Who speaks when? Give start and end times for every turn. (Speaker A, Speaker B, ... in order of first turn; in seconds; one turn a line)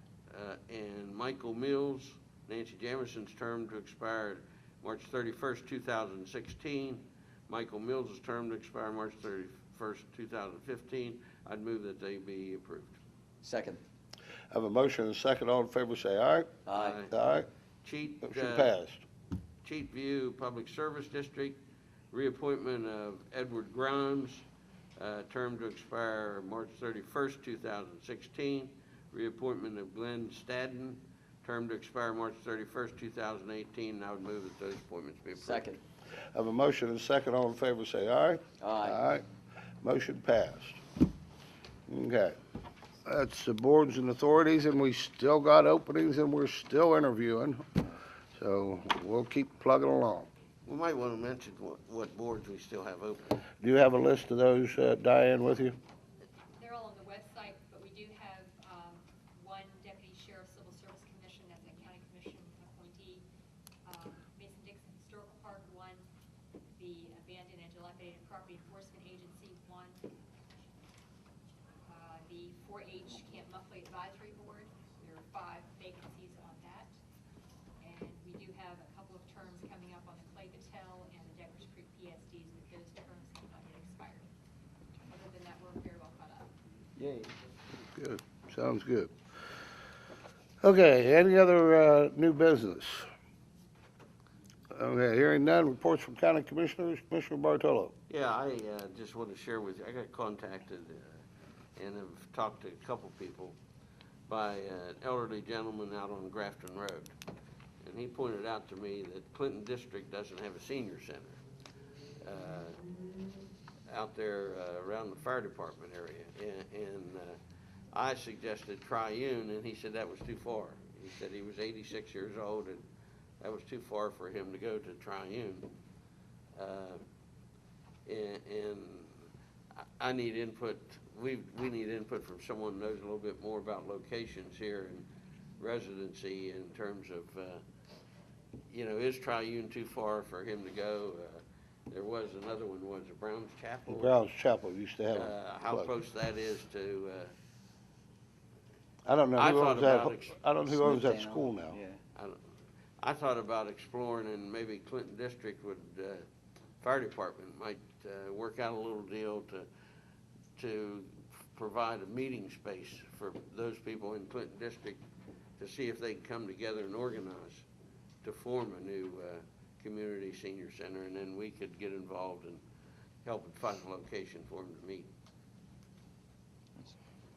Speaker A: 0.3-13.0
Speaker B: 13.4-13.8
Speaker C: 14.5-16.5
Speaker B: 16.7-17.0
Speaker A: 16.8-17.1
Speaker C: 17.1-17.5
Speaker A: 17.8-18.7
Speaker C: 18.2-19.1
Speaker A: 19.6-21.6
Speaker A: 22.1-24.5
Speaker A: 25.0-35.7
Speaker B: 35.4-35.8
Speaker C: 36.4-39.2
Speaker B: 38.6-39.0
Speaker C: 39.8-40.8
Speaker C: 41.9-42.4
Speaker C: 43.0-47.6
Speaker C: 48.4-50.3
Speaker A: 50.7-53.4
Speaker C: 53.6-55.8
Speaker D: 56.6-63.2
Speaker D: 63.9-66.0
Speaker D: 66.8-70.0
Speaker D: 71.9-76.9
Speaker D: 77.8-84.3
Speaker D: 85.1-86.5
Speaker B: 87.0-87.3
Speaker C: 88.0-89.1
Speaker C: 90.6-93.1
Speaker C: 94.7-97.9
Speaker A: 98.1-101.2
Speaker A: 101.8-103.6
Speaker A: 104.3-107.1
Speaker A: 107.8-111.4
Speaker A: 112.2-112.8
Speaker A: 113.9-117.4
Speaker A: 117.9-122.8
Speaker A: 123.4-125.7
Speaker A: 126.6-127.0
Speaker A: 128.1-129.1
Speaker A: 129.7-135.1
Speaker A: 135.6-137.6
Speaker A: 138.7-144.2
Speaker C: 143.9-145.9
Speaker A: 145.1-147.3
Speaker C: 149.1-151.8
Speaker A: 149.3-150.4
Speaker B: 150.7-152.0
Speaker A: 152.2-152.4
Speaker A: 153.0-156.3
Speaker A: 156.8-159.7
Speaker A: 160.6-165.0
Speaker A: 165.6-167.7
Speaker A: 168.2-172.6
Speaker A: 173.2-175.1